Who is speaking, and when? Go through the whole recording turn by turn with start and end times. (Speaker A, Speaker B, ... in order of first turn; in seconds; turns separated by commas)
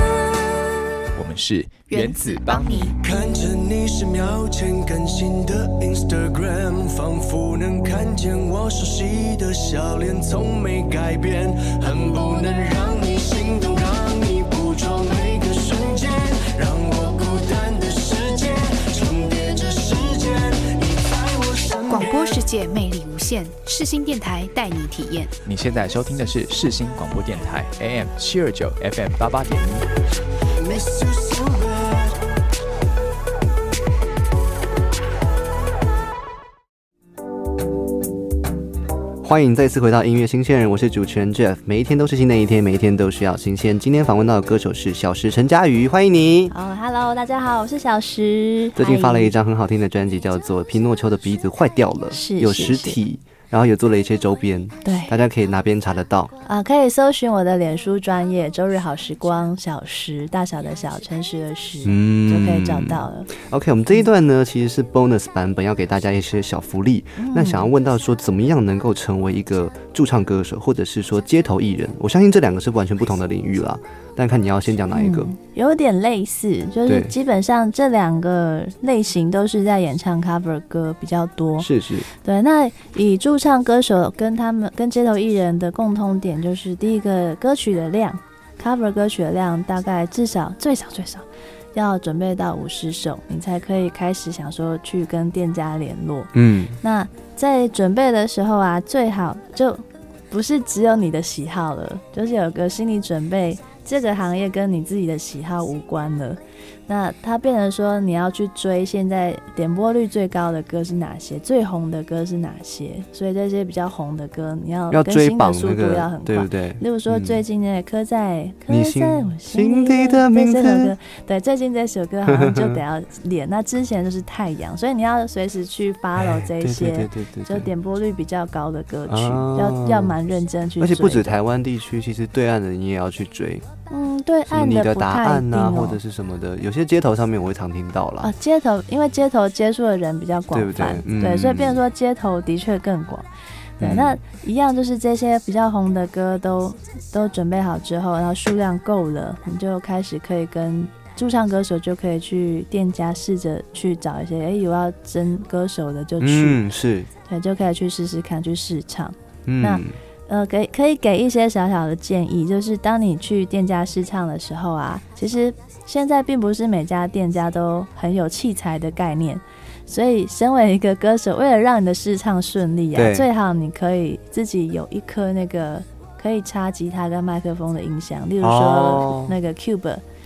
Speaker A: 1.1-2.9, Speaker B: 1.9-2.9, Speaker C: 3.0-22.4, Speaker B: 21.9-25.4, Speaker A: 25.4-29.8, Speaker C: 30.6-32.1, Speaker D: 39.2-46.5, Speaker E: 46.5-49.3, Speaker D: 48.7-56.3, Speaker E: 52.1-53.0, Speaker E: 54.8-55.1, Speaker E: 56.4-63.3, Speaker D: 61.8-75.3, Speaker E: 67.2-67.7, Speaker E: 74.9-81.7, Speaker D: 76.8-77.1, Speaker D: 81.6-82.1, Speaker E: 82.2-96.3, Speaker D: 96.3-96.8, Speaker E: 96.8-131.4, Speaker D: 114.9-117.4, Speaker D: 118.7-120.9, Speaker D: 122.2-122.8, Speaker D: 126.2-127.7, Speaker D: 129.1-130.2, Speaker D: 130.8-133.6, Speaker E: 133.9-136.0, Speaker D: 134.5-138.3, Speaker E: 138.2-143.3, Speaker D: 140.5-141.8, Speaker D: 143.8-144.2, Speaker E: 143.8-156.6, Speaker D: 156.2-157.1, Speaker E: 157.3-180.0, Speaker D: 159.4-159.9, Speaker D: 172.9-173.2, Speaker D: 178.4-179.3